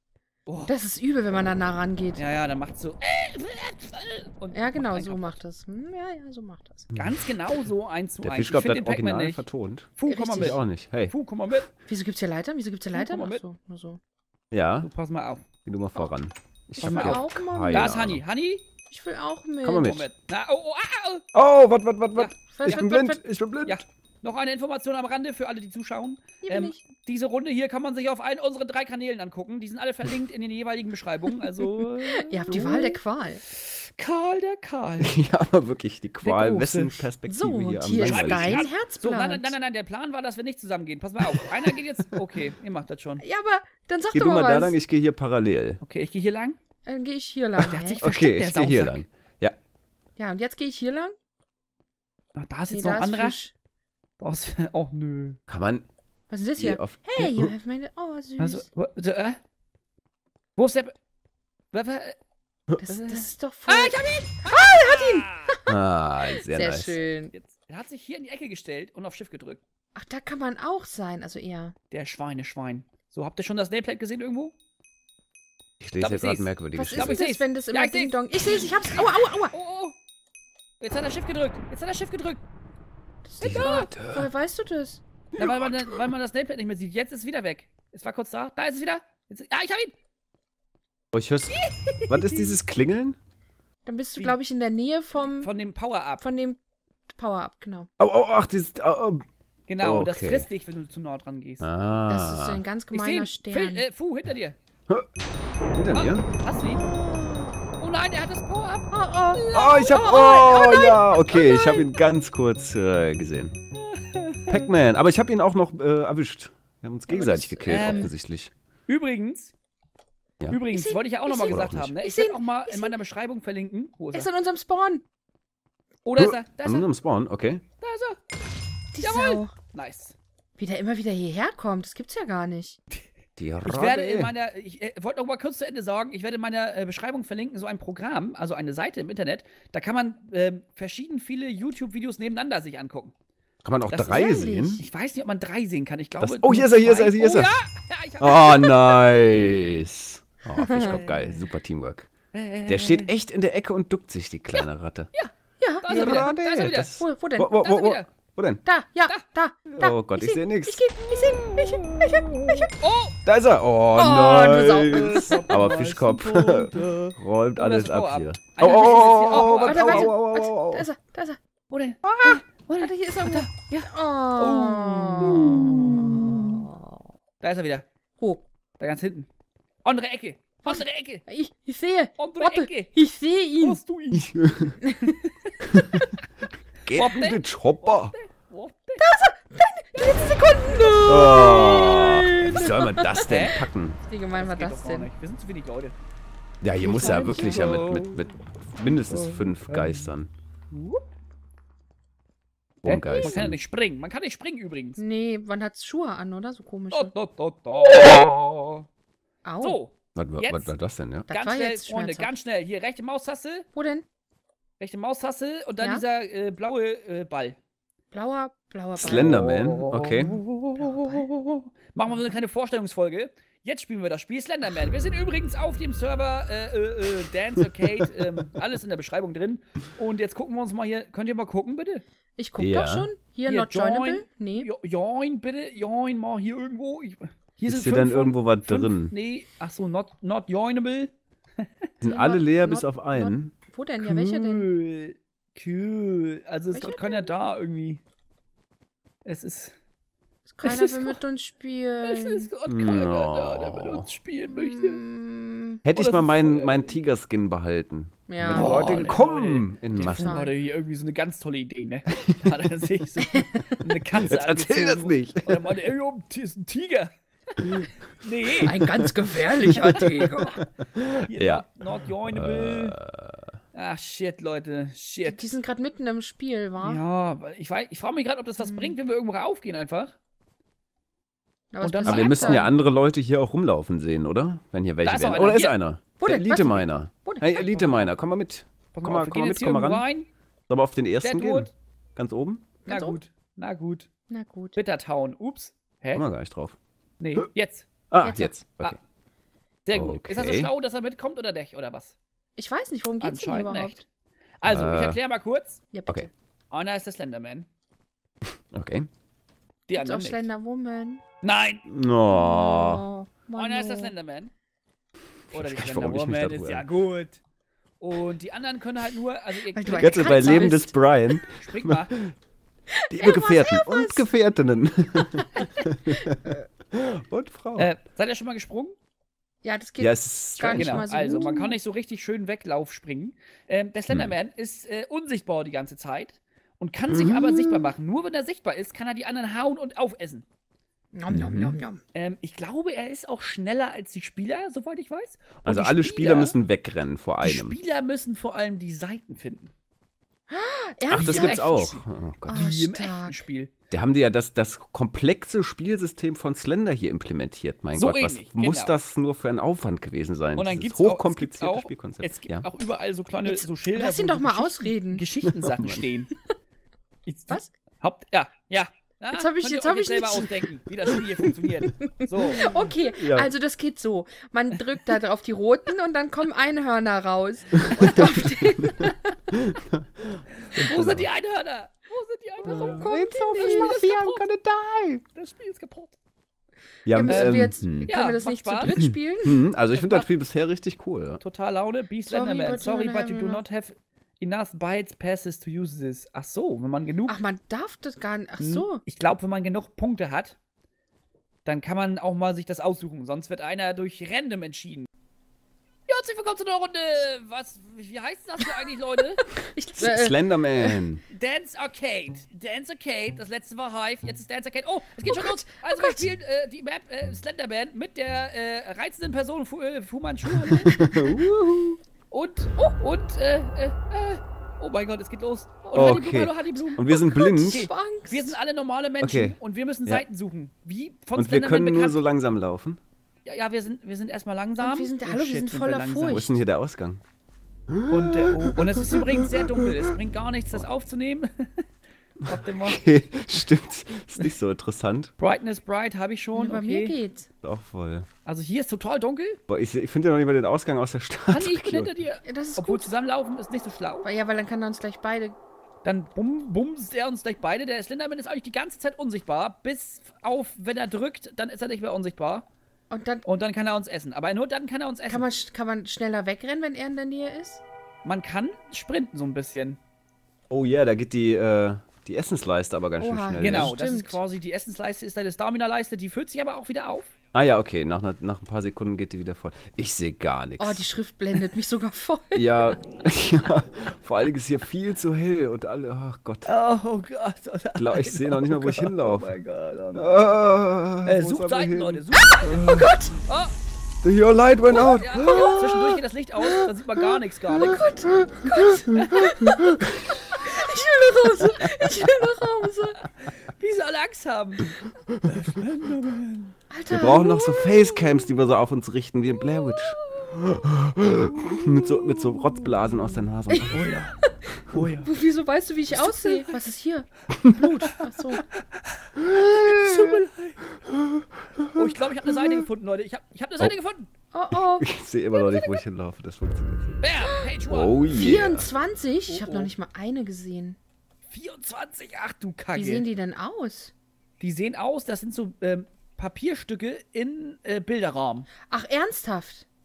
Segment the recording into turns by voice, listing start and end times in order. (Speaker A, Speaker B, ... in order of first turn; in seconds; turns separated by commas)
Speaker A: 0.5-0.7, Speaker B: 0.7-2.2, Speaker A: 2.2-5.4, Speaker B: 4.5-6.9, Speaker C: 6.9-7.3, Speaker A: 7.0-9.4, Speaker C: 8.2-11.1, Speaker A: 10.0-11.7, Speaker B: 10.1-10.6, Speaker B: 11.9-14.0, Speaker A: 12.9-13.4, Speaker C: 14.5-14.9, Speaker A: 14.8-15.4, Speaker C: 15.7-18.2, Speaker B: 16.8-18.0, Speaker A: 16.8-18.6, Speaker B: 18.9-19.9, Speaker C: 19.6-20.1, Speaker A: 19.8-21.2, Speaker C: 21.3-23.8, Speaker A: 22.2-22.9, Speaker B: 22.5-23.2, Speaker A: 23.6-35.2, Speaker B: 26.4-26.8, Speaker B: 32.1-33.4, Speaker C: 35.0-38.7, Speaker A: 36.2-37.1, Speaker B: 37.2-39.5, Speaker A: 38.0-43.2, Speaker B: 43.2-44.8, Speaker C: 44.1-45.8, Speaker A: 45.8-46.6, Speaker B: 46.9-48.0, Speaker A: 47.6-49.0, Speaker C: 48.0-49.6, Speaker B: 50.2-51.1, Speaker A: 52.4-53.4, Speaker B: 52.7-53.5, Speaker A: 54.2-55.4, Speaker C: 55.5-55.9, Speaker B: 56.3-58.7, Speaker C: 56.6-57.5, Speaker A: 58.4-59.4, Speaker A: 60.6-60.9, Speaker A: 61.7-62.2, Speaker B: 62.8-65.6, Speaker A: 62.9-65.6, Speaker C: 65.7-67.0, Speaker B: 66.4-67.3, Speaker A: 67.3-69.6, Speaker B: 70.0-71.8, Speaker A: 71.9-74.5, Speaker C: 75.8-77.2, Speaker A: 76.0-80.0, Speaker B: 76.7-79.5, Speaker A: 80.8-82.4, Speaker B: 83.2-85.0, Speaker C: 83.4-84.3, Speaker A: 83.4-83.9, Speaker C: 85.3-86.0, Speaker A: 85.4-89.9, Speaker C: 91.1-91.5, Speaker A: 91.5-92.6, Speaker C: 92.1-93.2, Speaker B: 93.9-95.5, Speaker A: 95.2-96.2, Speaker B: 96.2-97.9, Speaker C: 98.0-99.2, Speaker A: 99.7-101.7, Speaker C: 99.8-100.5, Speaker C: 101.6-102.6, Speaker B: 102.1-103.8, Speaker A: 102.9-104.6, Speaker C: 105.8-106.3, Speaker A: 105.9-106.9, Speaker B: 106.6-107.5, Speaker A: 107.8-111.0, Speaker B: 108.9-111.8, Speaker C: 109.5-113.6, Speaker A: 113.8-114.7, Speaker C: 114.5-118.5, Speaker B: 117.1-118.1, Speaker A: 117.6-118.1, Speaker A: 118.9-119.5, Speaker A: 120.5-124.3, Speaker B: 120.7-123.0, Speaker C: 121.5-121.9, Speaker B: 124.1-125.0, Speaker A: 126.0-126.9, Speaker C: 126.2-127.6, Speaker A: 127.8-128.2, Speaker B: 128.9-129.5, Speaker A: 129.0-130.2, Speaker B: 130.6-132.8, Speaker C: 133.4-134.3, Speaker A: 133.6-143.1, Speaker C: 143.6-144.8, Speaker A: 143.9-149.8, Speaker B: 144.1-144.8, Speaker C: 146.2-147.6, Speaker C: 148.2-152.1, Speaker B: 150.6-151.0, Speaker A: 150.8-151.5, Speaker A: 152.3-153.1, Speaker C: 152.7-155.1, Speaker B: 155.6-156.3, Speaker A: 155.8-156.9, Speaker C: 155.9-158.6, Speaker B: 156.9-157.6, Speaker A: 157.6-158.1, Speaker B: 158.6-162.7, Speaker C: 159.8-160.9, Speaker A: 161.2-162.0, Speaker A: 162.8-163.2, Speaker C: 163.2-170.9, Speaker B: 163.9-165.5, Speaker A: 164.9-170.1, Speaker B: 168.6-171.4, Speaker A: 171.7-176.7, Speaker B: 172.3-177.0, Speaker A: 177.4-177.9, Speaker A: 178.8-179.3, Speaker A: 179.8-181.2, Speaker B: 180.7-183.8, Speaker A: 182.2-182.9, Speaker A: 183.6-184.4, Speaker C: 184.1-184.8, Speaker B: 184.8-185.2, Speaker A: 185.0-185.6, Speaker C: 185.7-186.0, Speaker B: 185.8-186.1, Speaker C: 186.8-188.2, Speaker A: 186.9-189.1, Speaker B: 189.0-193.4, Speaker A: 189.9-191.1, Speaker C: 191.1-194.0, Speaker A: 193.2-193.7, Speaker B: 194.1-195.1, Speaker A: 194.3-196.0, Speaker C: 196.6-200.3, Speaker B: 196.8-197.9, Speaker A: 196.8-198.2, Speaker A: 198.9-200.1, Speaker A: 200.7-201.0, Speaker C: 202.8-203.6, Speaker A: 202.8-205.0, Speaker B: 203.1-203.4, Speaker B: 205.0-207.1, Speaker A: 206.9-208.9, Speaker B: 209.4-209.8, Speaker A: 209.6-210.7, Speaker C: 210.2-211.3, Speaker B: 211.3-212.3, Speaker A: 211.3-213.7, Speaker B: 213.8-214.1, Speaker A: 214.8-217.6, Speaker B: 215.8-216.0, Speaker B: 218.1-219.3, Speaker C: 218.9-220.4, Speaker A: 219.0-232.0, Speaker B: 220.8-221.3, Speaker B: 232.4-234.7, Speaker C: 232.6-233.1, Speaker A: 233.5-241.1, Speaker C: 237.7-239.2, Speaker C: 242.0-243.5, Speaker B: 242.0-244.7, Speaker A: 244.1-248.0, Speaker B: 246.7-247.3, Speaker A: 249.2-249.8, Speaker B: 250.5-252.5, Speaker A: 250.6-251.2, Speaker A: 252.0-255.0, Speaker C: 252.7-254.1, Speaker B: 254.5-255.8, Speaker C: 255.8-260.4, Speaker A: 255.9-257.0, Speaker B: 258.3-259.0, Speaker A: 258.5-267.1, Speaker B: 259.9-260.5, Speaker C: 264.2-265.8, Speaker C: 267.6-267.9, Speaker A: 268.2-268.8, Speaker B: 268.6-270.6, Speaker C: 269.8-271.7, Speaker A: 269.9-270.6, Speaker A: 271.2-273.0, Speaker C: 272.3-273.5, Speaker A: 273.7-275.5, Speaker B: 275.2-277.0, Speaker A: 276.8-280.1, Speaker B: 278.6-279.0, Speaker B: 281.7-282.7, Speaker A: 281.8-282.7, Speaker C: 282.0-290.1, Speaker A: 285.0-285.8, Speaker B: 286.2-287.9, Speaker A: 287.7-288.0, Speaker A: 288.9-290.3, Speaker C: 290.7-292.7, Speaker A: 291.2-291.7, Speaker B: 292.9-293.2, Speaker A: 292.9-294.1, Speaker B: 294.3-294.8, Speaker A: 294.8-296.2, Speaker C: 296.1-296.8, Speaker A: 297.2-297.9, Speaker C: 298.1-299.0, Speaker B: 298.2-298.5, Speaker A: 299.9-302.2, Speaker C: 299.9-300.7, Speaker B: 302.6-304.0, Speaker A: 303.2-304.0, Speaker A: 304.6-305.8, Speaker C: 304.6-305.2, Speaker B: 305.9-306.3, Speaker A: 306.7-307.7, Speaker C: 308.7-309.1, Speaker A: 309.9-310.5, Speaker B: 309.9-311.2, Speaker A: 311.4-311.8, Speaker C: 311.9-313.1, Speaker B: 312.3-314.1, Speaker A: 313.6-314.5, Speaker C: 315.5-316.9, Speaker A: 315.5-317.4, Speaker A: 318.0-320.8, Speaker B: 319.7-320.9, Speaker C: 320.0-322.3, Speaker A: 321.5-322.1, Speaker B: 323.0-324.3, Speaker C: 323.1-327.9, Speaker B: 325.6-326.3, Speaker A: 327.8-329.0, Speaker B: 329.6-331.8, Speaker C: 330.0-331.1, Speaker A: 330.7-340.4, Speaker C: 334.1-334.4, Speaker C: 337.1-337.9, Speaker B: 341.1-342.0, Speaker C: 341.3-341.8, Speaker A: 342.1-346.6, Speaker C: 345.6-347.8, Speaker A: 347.4-349.7, Speaker B: 350.5-351.7, Speaker C: 351.1-352.6, Speaker A: 351.1-353.7, Speaker B: 352.5-353.4, Speaker C: 353.9-362.7, Speaker A: 357.9-358.9, Speaker A: 360.6-366.3, Speaker B: 363.5-365.2, Speaker C: 365.6-366.0, Speaker A: 367.3-372.7, Speaker B: 369.3-370.6, Speaker B: 372.0-379.5, Speaker C: 372.6-373.5, Speaker C: 377.8-381.3, Speaker A: 380.5-384.5, Speaker C: 382.7-385.2, Speaker B: 382.7-384.1, Speaker A: 385.4-386.2, Speaker C: 387.1-388.1, Speaker B: 387.1-389.6, Speaker A: 387.3-389.0, Speaker C: 388.9-391.4, Speaker A: 389.9-390.3, Speaker A: 391.4-397.4, Speaker B: 392.2-393.6, Speaker B: 397.3-399.0, Speaker A: 398.6-400.6, Speaker A: 401.6-405.1, Speaker A: 406.1-409.4, Speaker B: 409.4-411.0, Speaker C: 410.0-411.2, Speaker A: 411.3-421.0, Speaker B: 415.2-416.2, Speaker C: 420.5-422.0, Speaker A: 422.3-427.0, Speaker B: 425.9-426.1, Speaker C: 425.9-427.9, Speaker B: 426.9-428.6, Speaker A: 427.7-432.2, Speaker C: 429.2-430.2, Speaker C: 431.4-433.0, Speaker A: 433.4-436.5, Speaker B: 434.8-436.5, Speaker C: 436.3-437.2, Speaker C: 437.9-440.1, Speaker A: 438.1-441.9, Speaker A: 442.4-443.0, Speaker C: 442.5-445.3, Speaker A: 445.4-447.2, Speaker B: 446.5-447.5, Speaker C: 447.6-448.3, Speaker A: 448.4-449.6, Speaker C: 449.7-452.1, Speaker A: 451.5-454.3, Speaker B: 452.4-453.1, Speaker B: 454.2-455.6, Speaker A: 456.0-462.7, Speaker B: 463.1-463.5, Speaker A: 463.4-465.5, Speaker B: 465.3-467.8, Speaker A: 468.2-470.0, Speaker C: 470.7-473.9, Speaker B: 473.2-474.4, Speaker A: 473.6-477.3, Speaker C: 477.5-481.0, Speaker B: 480.8-482.9, Speaker C: 482.5-486.7, Speaker A: 486.7-490.6, Speaker C: 488.0-489.6, Speaker C: 490.1-493.1, Speaker A: 491.2-493.8, Speaker B: 492.4-493.4, Speaker C: 494.2-496.2, Speaker A: 494.9-498.1, Speaker B: 495.4-495.9, Speaker B: 497.7-503.2, Speaker A: 503.4-506.8, Speaker B: 506.9-508.5, Speaker C: 507.1-510.2, Speaker A: 510.2-510.6, Speaker C: 510.7-514.1, Speaker A: 511.3-512.9, Speaker B: 513.7-518.6, Speaker A: 513.9-515.3, Speaker A: 516.1-516.7, Speaker A: 517.8-520.8, Speaker C: 519.4-520.4, Speaker B: 519.8-520.5, Speaker C: 521.0-522.7, Speaker A: 521.9-524.3, Speaker B: 524.5-525.1, Speaker C: 524.7-527.2, Speaker A: 525.5-526.0, Speaker A: 527.2-528.6, Speaker B: 527.4-527.7, Speaker C: 527.9-528.9, Speaker B: 528.3-531.0, Speaker A: 529.5-529.9, Speaker A: 531.5-533.3, Speaker B: 532.9-534.1, Speaker A: 534.6-538.7, Speaker B: 538.9-539.9